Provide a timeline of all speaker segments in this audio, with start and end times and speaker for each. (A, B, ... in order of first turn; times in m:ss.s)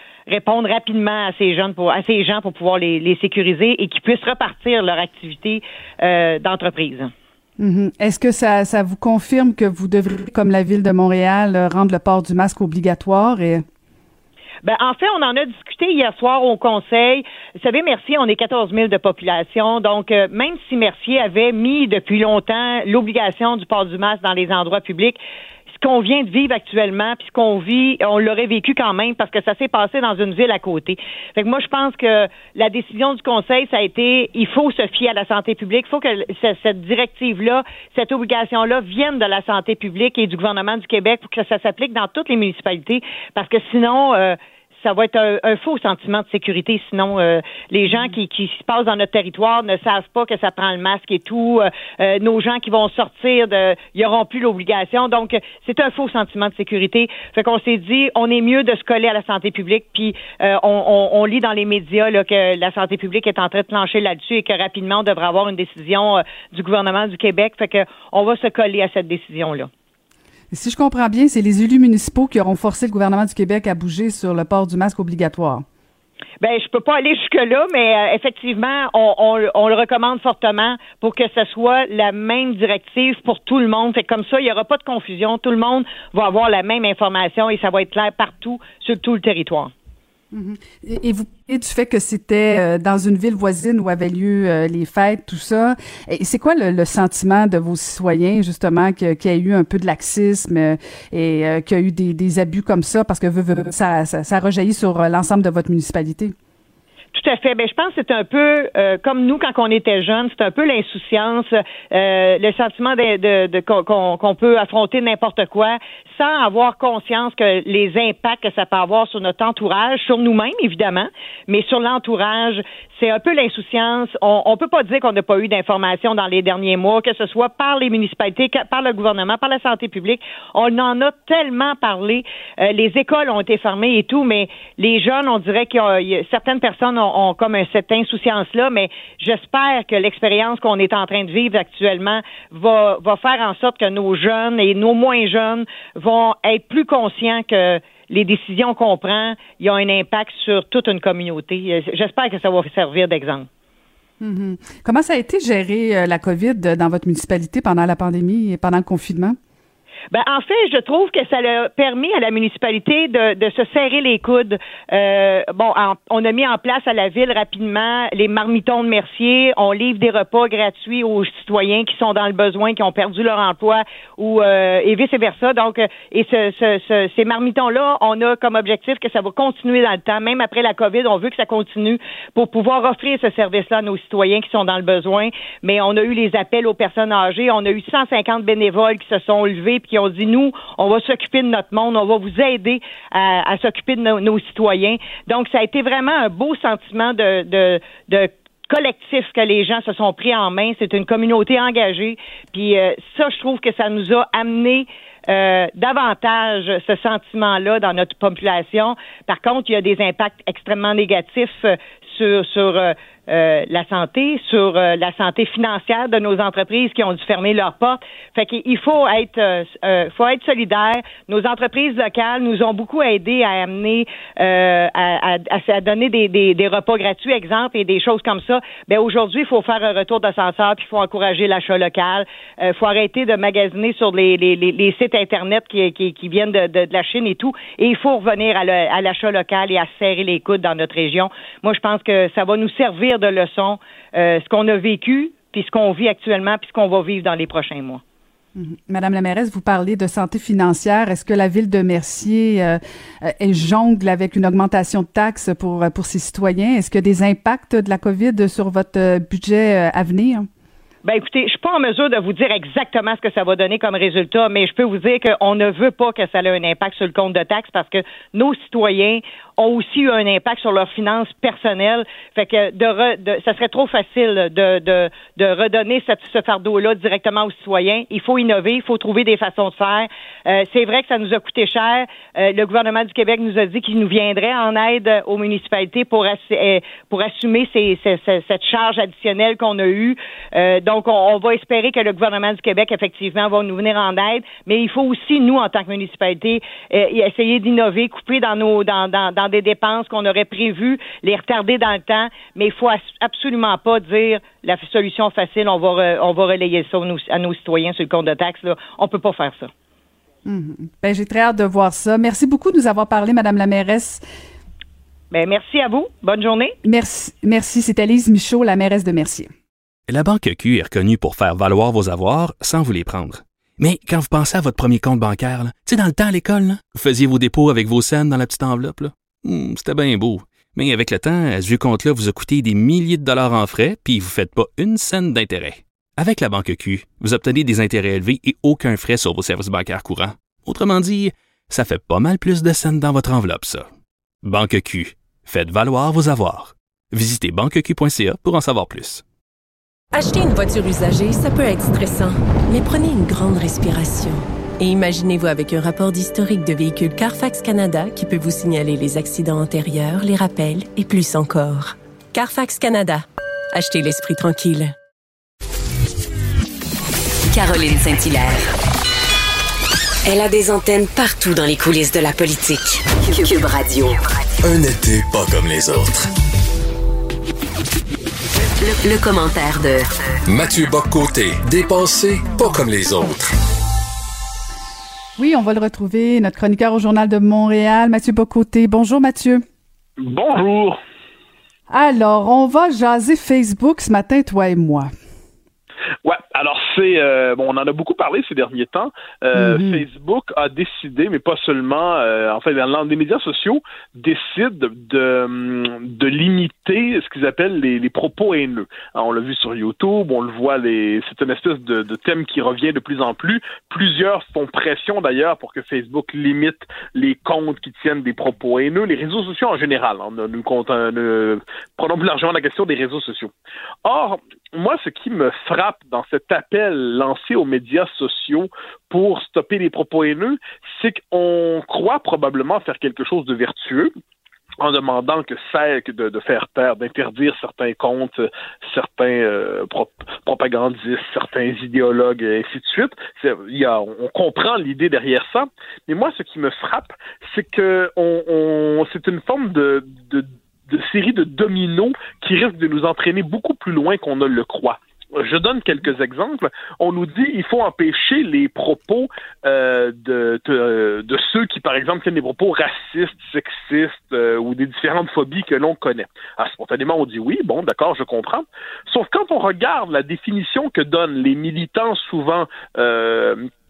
0:00.3-0:07.1 A
0:07.6-0:13.6 B
0:14.6-0:25.2 A
0:25.7-1:09.7 A
1:10.5-1:15.7 B
1:16.4-1:29.7 A
1:30.3-1:46.3 B
1:47.1-2:33.5 A
2:34.2-2:39.4 B
2:40.1-4:08.0 A
4:08.6-4:20.5 B
4:21.0-5:09.7 A
5:10.4-5:14.2 B
5:15.3-5:16.8 A
5:16.8-5:19.5 B
5:20.1-5:43.9 C
5:44.4-5:49.2 C
5:50.1-6:04.9 D
6:07.5-6:08.7 E
6:10.2-6:14.2 E
6:14.6-6:16.3 F
6:18.8-6:20.1 E
6:20.5-6:23.5 F
6:25.4-6:29.6 B
6:30.2-6:31.0 G
6:31.9-6:35.1 B
6:36.2-7:03.5 G
6:39.6-6:40.0 B
7:04.0-7:14.1 G
7:14.8-7:53.6 G